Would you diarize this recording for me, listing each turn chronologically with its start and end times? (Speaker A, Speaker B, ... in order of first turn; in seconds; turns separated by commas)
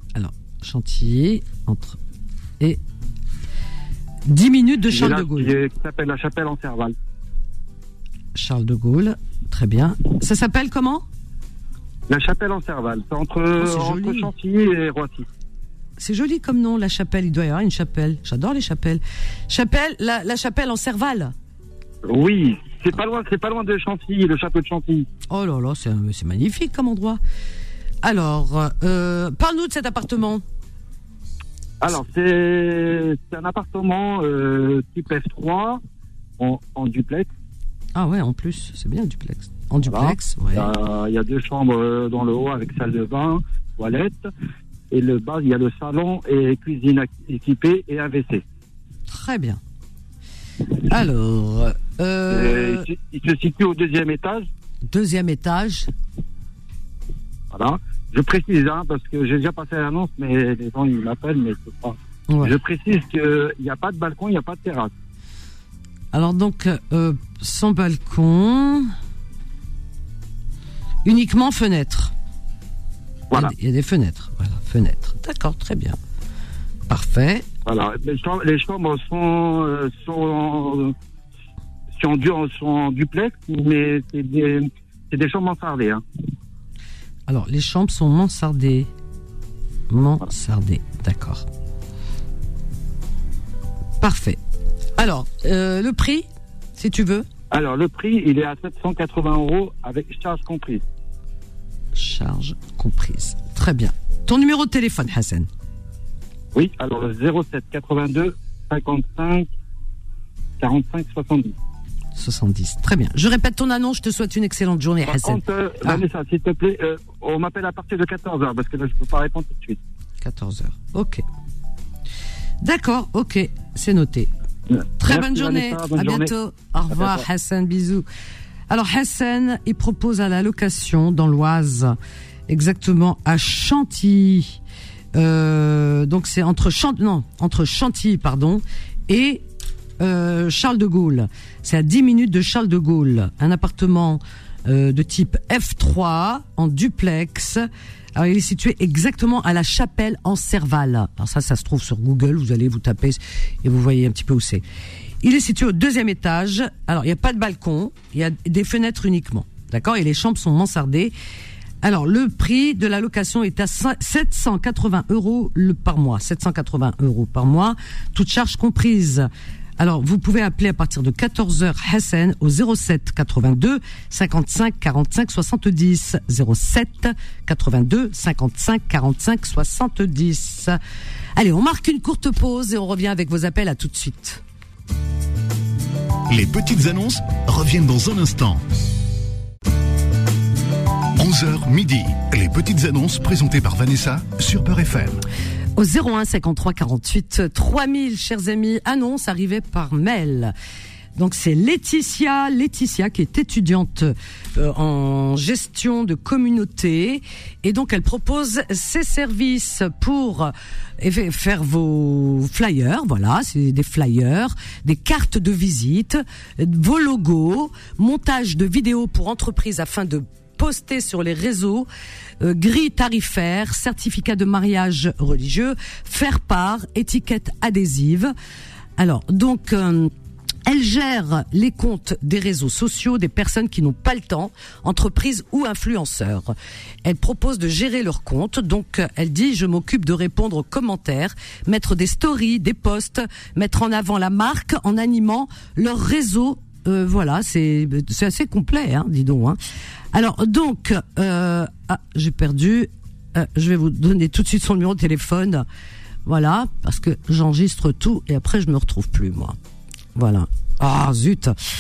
Speaker A: 0.1-2.0, Speaker A: 4.2-5.5, Speaker B: 4.9-7.0, Speaker A: 8.3-11.1, Speaker B: 12.1-15.3, Speaker A: 13.6-14.3, Speaker A: 16.0-21.3, Speaker B: 22.0-25.1, Speaker A: 25.3-27.2, Speaker A: 28.0-30.4, Speaker B: 31.8-35.8, Speaker B: 36.4-37.3, Speaker A: 37.9-40.7, Speaker B: 39.8-44.3, Speaker B: 44.9-48.4, Speaker A: 49.1-49.6, Speaker A: 50.8-52.9, Speaker B: 52.3-54.5, Speaker A: 54.9-55.9, Speaker B: 57.5-64.9, Speaker A: 62.3-62.5, Speaker A: 66.1-68.9, Speaker A: 71.0-72.1, Speaker A: 73.3-76.0, Speaker A: 76.9-77.5, Speaker B: 77.7-80.9, Speaker B: 82.0-86.0, Speaker A: 87.3-88.9, Speaker A: 89.9-91.4, Speaker A: 94.0-94.4, Speaker A: 95.0-97.3, Speaker B: 97.5-100.8, Speaker A: 101.9-105.5, Speaker B: 106.5-109.5, Speaker B: 110.6-111.5, Speaker A: 112.1-116.0, Speaker B: 115.0-119.8, Speaker A: 120.2-121.2, Speaker A: 122.6-124.3, Speaker B: 124.7-126.3, Speaker A: 125.0-128.1, Speaker B: 126.9-127.2, Speaker A: 128.7-131.9, Speaker A: 132.5-134.6, Speaker A: 135.1-139.4, Speaker A: 140.0-147.6, Speaker A: 148.1-154.6, Speaker A: 155.2-161.1, Speaker A: 161.8-180.8, Speaker A: 181.3-184.4, Speaker C: 186.3-188.6, Speaker C: 191.2-195.2, Speaker A: 195.8-200.5, Speaker A: 201.2-221.9, Speaker A: 222.4-228.3, Speaker A: 229.0-230.1, Speaker A: 230.7-249.6, Speaker A: 250.1-255.6, Speaker A: 256.2-259.6, Speaker A: 260.1-261.5